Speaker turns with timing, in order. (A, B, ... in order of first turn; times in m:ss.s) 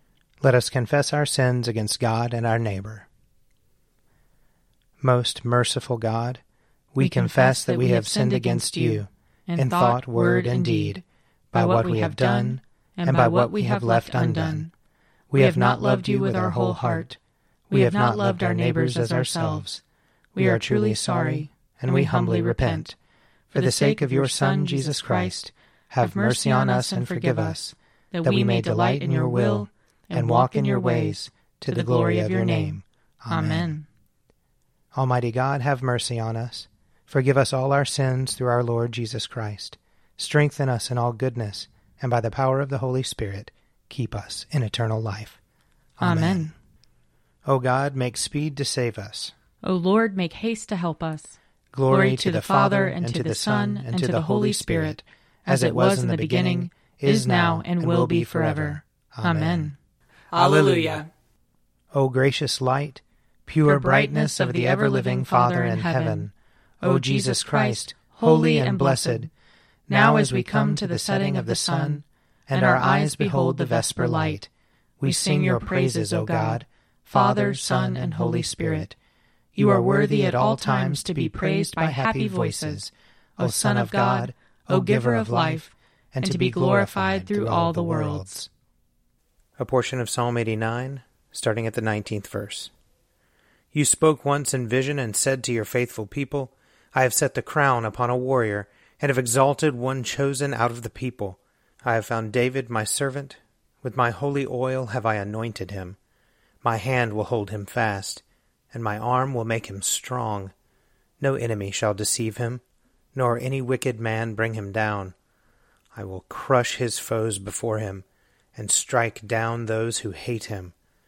0:00.4-0:03.1 A
0:05.0-0:06.4 A
0:06.9-0:14.7 A
0:07.0-0:11.0 B
0:11.5-0:14.7 B
0:15.3-0:17.2 A
0:15.4-0:17.1 B
0:17.7-0:19.8 A
0:17.7-0:19.7 B
0:20.4-0:22.9 B
0:20.4-0:23.0 A
0:23.5-0:25.4 B
0:23.5-0:33.7 A
0:26.0-0:27.6 B
0:28.1-0:32.8 B
0:33.3-0:33.8 B
0:34.9-0:45.4 A
0:46.0-0:46.5 A
0:46.0-0:46.5 B
0:47.5-0:49.3 A
0:49.6-0:51.4 B
0:51.7-0:59.7 A
0:51.9-0:59.8 B
1:00.3-1:01.1 B
1:00.3-1:01.0 A
1:01.9-1:09.3 A
1:03.6-1:06.3 B
1:06.8-1:09.3 B
1:09.9-1:14.5 A
1:09.9-1:14.4 B
1:15.0-1:19.0 A
1:15.0-1:18.9 B
1:19.6-1:28.5 A
1:19.6-1:22.8 B
1:23.4-1:25.7 B
1:26.2-1:28.3 B
1:29.6-1:32.7 A
1:33.7-1:46.0 A
1:46.6-1:50.5 A
1:51.2-1:52.6 A
1:53.2-1:55.2 A
1:55.9-2:00.7 A